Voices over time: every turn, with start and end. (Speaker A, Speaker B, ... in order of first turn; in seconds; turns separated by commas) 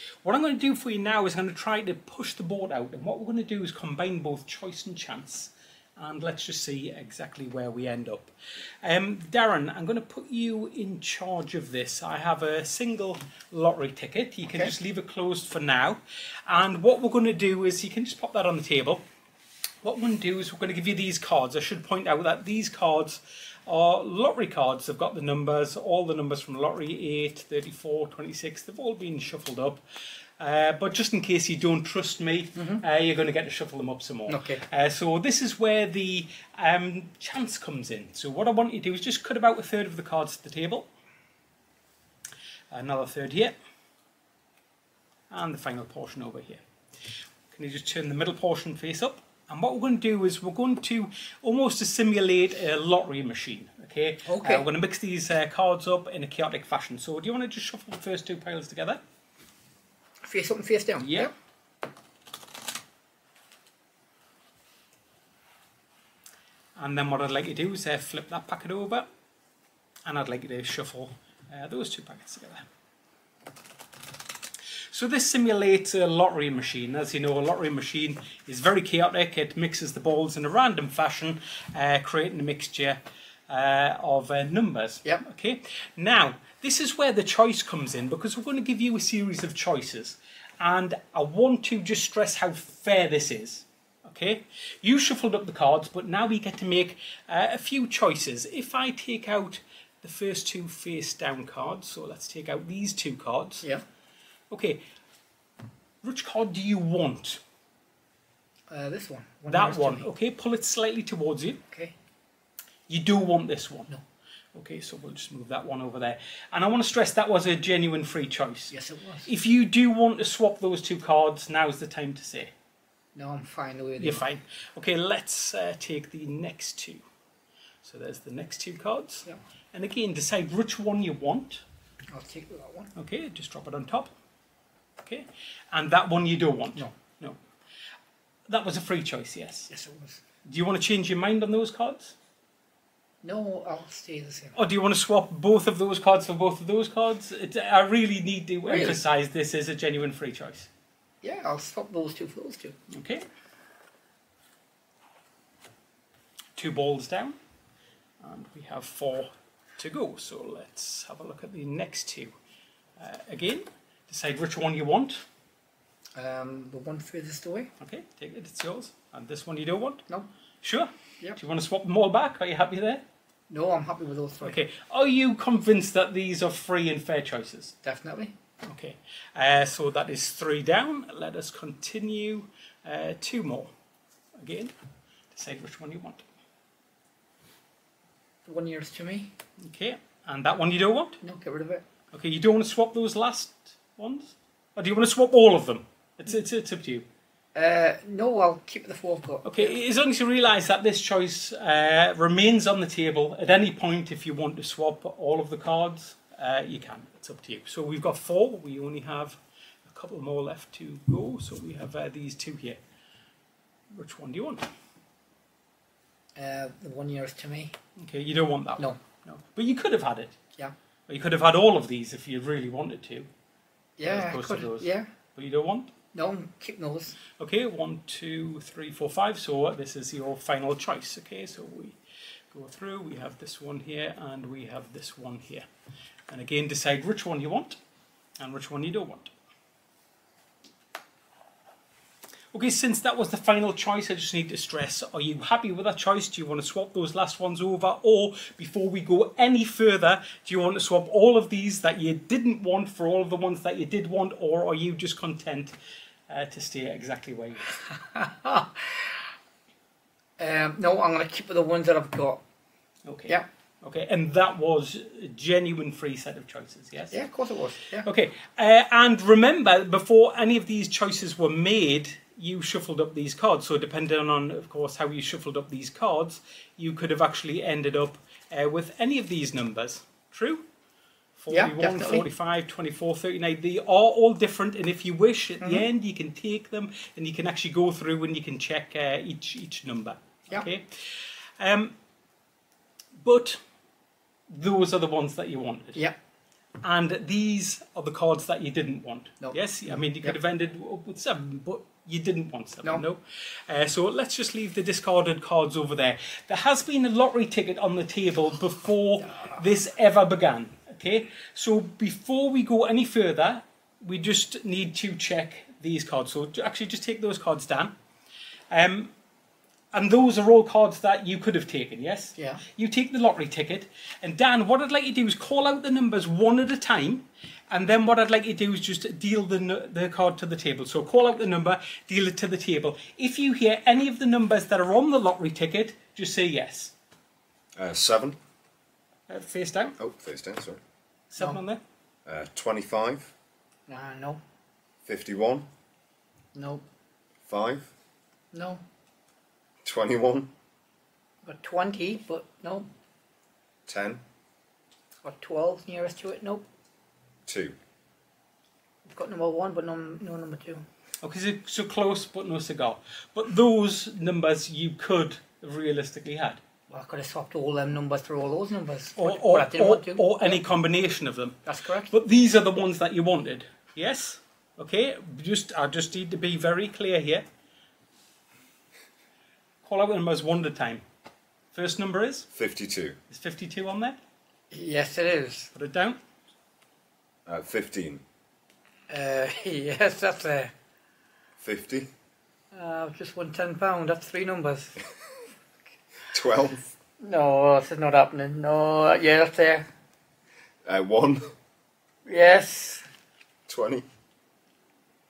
Speaker A: 0.2-19.0, Speaker A: 19.8-29.8, Speaker A: 30.4-40.9, Speaker B: 32.6-32.8, Speaker B: 34.3-34.6, Speaker A: 42.7-43.5, Speaker A: 45.3-46.6, Speaker A: 47.5-59.0, Speaker B: 54.3-54.7, Speaker B: 60.2-61.3, Speaker A: 61.0-61.3, Speaker A: 66.8-69.1, Speaker A: 70.0-72.7, Speaker A: 74.9-103.7, Speaker A: 104.5-104.8, Speaker A: 106.0-107.4, Speaker B: 108.7-110.1, Speaker A: 109.5-111.6, Speaker A: 112.9-113.9, Speaker A: 114.5-122.5, Speaker B: 118.7-119.3, Speaker B: 123.2-124.2, Speaker A: 124.0-127.0, Speaker A: 127.8-131.6, Speaker B: 132.1-132.9, Speaker A: 132.9-134.1, Speaker A: 135.0-137.4, Speaker A: 138.5-139.7, Speaker B: 139.7-140.2, Speaker A: 140.4-142.2, Speaker B: 143.2-144.6, Speaker A: 144.6-150.7, Speaker B: 148.7-149.0, Speaker B: 151.2-152.8, Speaker A: 152.9-153.2, Speaker A: 156.6-157.4, Speaker A: 158.2-162.3, Speaker A: 163.0-165.2, Speaker B: 166.2-167.7, Speaker A: 167.8-170.0, Speaker A: 170.6-173.0, Speaker B: 173.5-174.6, Speaker A: 174.4-177.8, Speaker B: 177.8-178.3, Speaker A: 178.7-183.7, Speaker A: 184.4-184.7, Speaker A: 185.3-186.3, Speaker B: 188.5-189.3, Speaker A: 189.6-191.2, Speaker B: 191.2-191.8, Speaker A: 192.1-197.1, Speaker B: 197.6-199.7, Speaker A: 199.4-212.8, Speaker A: 213.9-214.7, Speaker B: 216.4-217.7, Speaker A: 218.0-220.4, Speaker A: 221.1-223.3, Speaker B: 224.0-225.1, Speaker A: 224.0-225.9, Speaker B: 226.1-227.2, Speaker A: 227.4-232.0, Speaker A: 232.5-235.7, Speaker A: 236.3-237.8, Speaker A: 238.4-239.3, Speaker A: 242.5-255.8, Speaker A: 256.3-257.8, Speaker B: 257.9-259.2, Speaker B: 260.4-262.4, Speaker A: 263.1-267.2, Speaker B: 267.1-268.1, Speaker A: 268.0-280.6, Speaker A: 281.4-291.9, Speaker B: 281.5-282.3, Speaker A: 293.2-293.6, Speaker A: 294.5-296.0, Speaker A: 296.8-317.9, Speaker B: 299.4-300.4, Speaker A: 318.7-319.1, Speaker A: 319.9-336.9, Speaker B: 322.4-322.6, Speaker C: 337.8-338.4, Speaker A: 339.3-340.0, Speaker C: 340.0-340.8, Speaker A: 341.3-341.8, Speaker C: 342.3-343.3, Speaker B: 343.9-344.4, Speaker C: 345.1-345.7, Speaker B: 346.6-346.8, Speaker C: 347.5-347.9, Speaker B: 348.5-348.8, Speaker C: 349.8-350.5, Speaker B: 351.4-352.9, Speaker C: 353.9-354.2, Speaker B: 355.2-356.6, Speaker C: 357.5-357.8, Speaker B: 359.1-360.8, Speaker A: 361.2-366.6, Speaker B: 366.9-370.6, Speaker A: 369.2-377.4, Speaker B: 371.6-372.1, Speaker A: 379.8-381.0, Speaker A: 381.7-382.5, Speaker C: 382.5-383.2, Speaker A: 383.3-384.2, Speaker B: 384.7-385.7, Speaker A: 385.7-386.2, Speaker C: 387.5-388.2, Speaker B: 389.1-390.7, Speaker C: 391.6-392.1, Speaker B: 392.7-395.0, Speaker C: 396.3-396.9, Speaker B: 397.2-399.9, Speaker C: 400.9-401.5, Speaker B: 402.2-403.0, Speaker C: 403.7-404.1